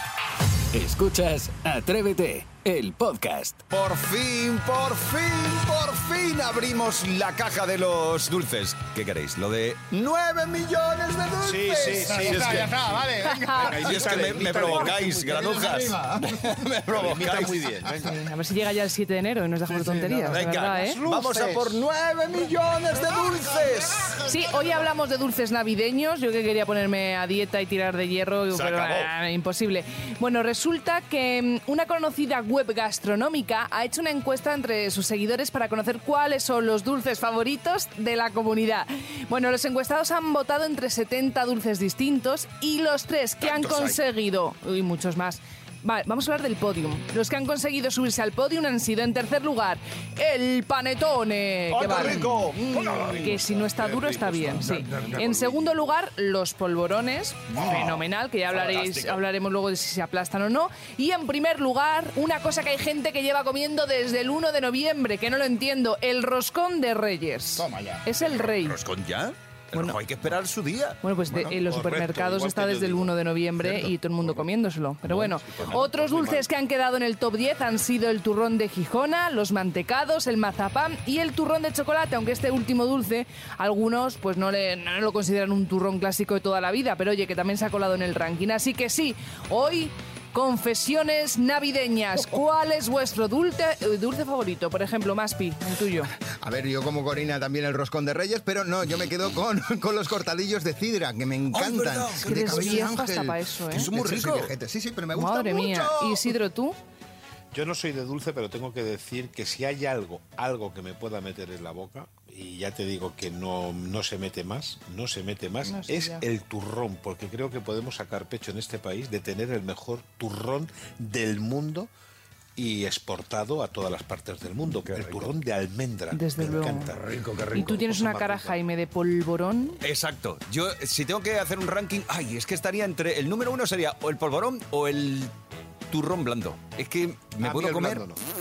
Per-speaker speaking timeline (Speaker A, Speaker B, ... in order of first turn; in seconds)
Speaker A: 0.7-3.6
Speaker B: 3.7-12.8, 13.5-17.6, 20.3-24.2, 28.5-29.1, 43.4-44.0, 51.7-53.4, 58.7-59.0, 68.6-71.4, 101.5-102.9, 103.7-104.5, 124.8-125.3, 126.9-127.7, 129.8-135.3, 135.9-138.1
Speaker C: 11.4-18.2, 19.7-21.8, 52.8-55.9, 71.4-74.5, 75.0-76.5, 107.5-121.9, 122.5-128.6, 137.4-138.2
Speaker D: 12.2-14.7, 96.4-106.0
Speaker E: 13.3-13.7, 18.0-21.0, 24.3-68.8, 71.0-96.1, 102.2-103.9, 105.1-106.8, 115.7-116.2, 126.1-126.9, 127.5-129.8